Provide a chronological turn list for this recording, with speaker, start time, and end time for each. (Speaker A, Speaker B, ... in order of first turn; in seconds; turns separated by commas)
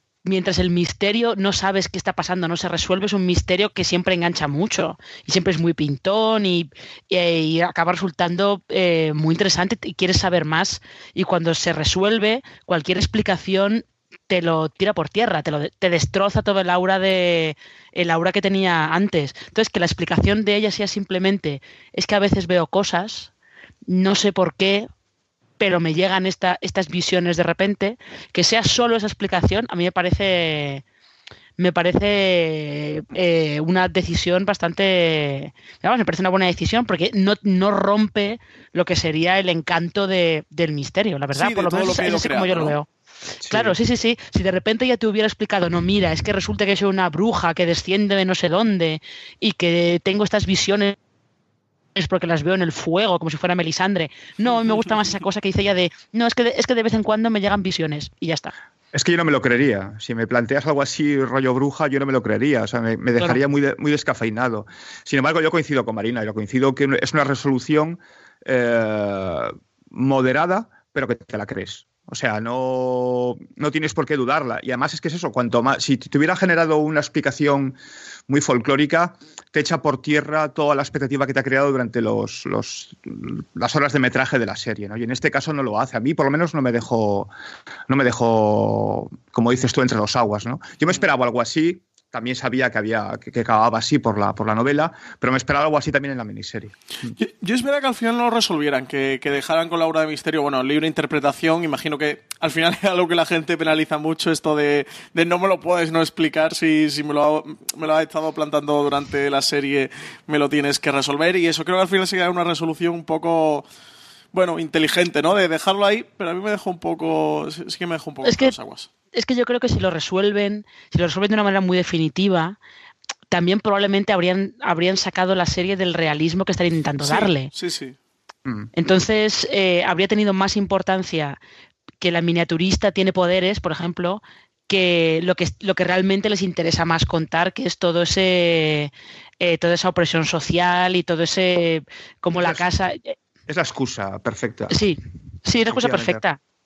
Speaker A: 0.2-23.3, Speaker A: 23.9-24.9, Speaker A: 25.6-30.8, Speaker A: 31.6-42.9, Speaker B: 41.3-42.7, Speaker C: 43.4-43.7, Speaker A: 43.5-51.0, Speaker A: 51.9-58.5, Speaker C: 58.9-77.8, Speaker C: 78.3-87.3, Speaker C: 87.9-96.7, Speaker B: 97.2-113.6, Speaker B: 114.3-118.9, Speaker A: 118.2-118.5, Speaker A: 119.1-122.6, Speaker A: 123.3-127.5, Speaker B: 127.0-128.0, Speaker A: 128.8-131.4, Speaker A: 132.0-143.1, Speaker C: 142.3-142.6, Speaker C: 143.5-144.8, Speaker A: 144.7-146.4, Speaker C: 145.7-146.2